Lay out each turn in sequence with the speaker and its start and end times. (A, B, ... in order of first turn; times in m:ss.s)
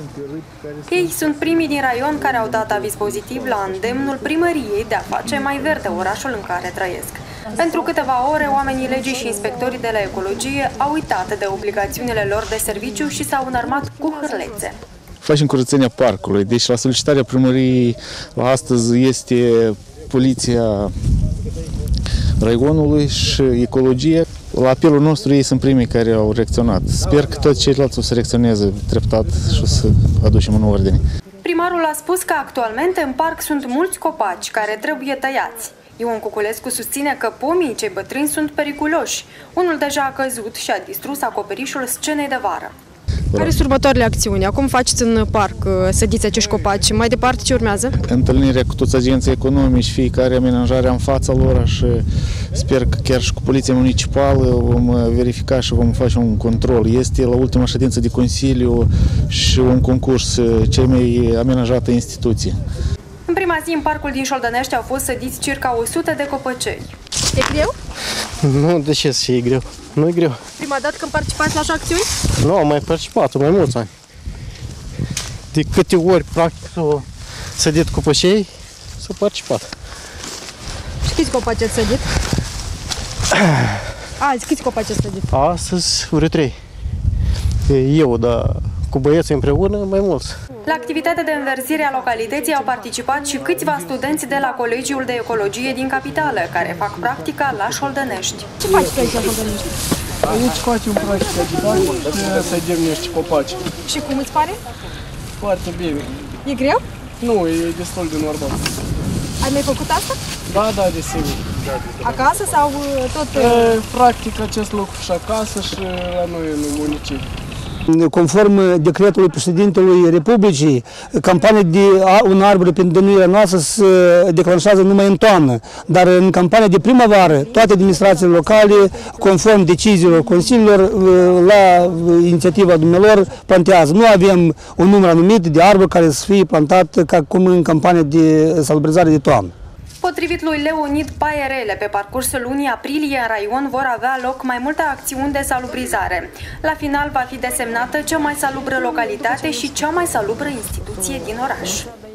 0:00.9-0:14.8 A
0:15.2-0:20.9 B
0:22.4-0:31.0 B
0:31.4-0:42.7 A
0:43.3-0:48.0 C
0:48.0-1:02.6 B
1:03.3-1:06.9 A
1:07.3-1:07.7 C
1:08.4-1:10.4 D
1:10.6-1:12.1 C
1:12.4-1:13.9 D
1:15.5-1:19.7 D
1:21.0-1:22.0 C
1:24.2-1:25.3 C
1:25.3-1:26.6 D
1:27.7-1:30.4 D
1:30.6-1:38.5 A
1:38.6-1:39.7 C
1:40.3-1:43.6 E
1:41.1-1:42.5 B
1:43.8-1:44.6 C
1:45.4-1:46.0 E
1:46.4-1:46.8 C
1:47.2-1:48.4 E
1:49.4-1:50.2 C
1:50.7-1:51.2 E
1:52.0-1:53.7 C
1:53.4-1:54.0 B
1:53.7-1:57.2 E
1:57.9-2:19.5 F
2:20.0-2:31.9 A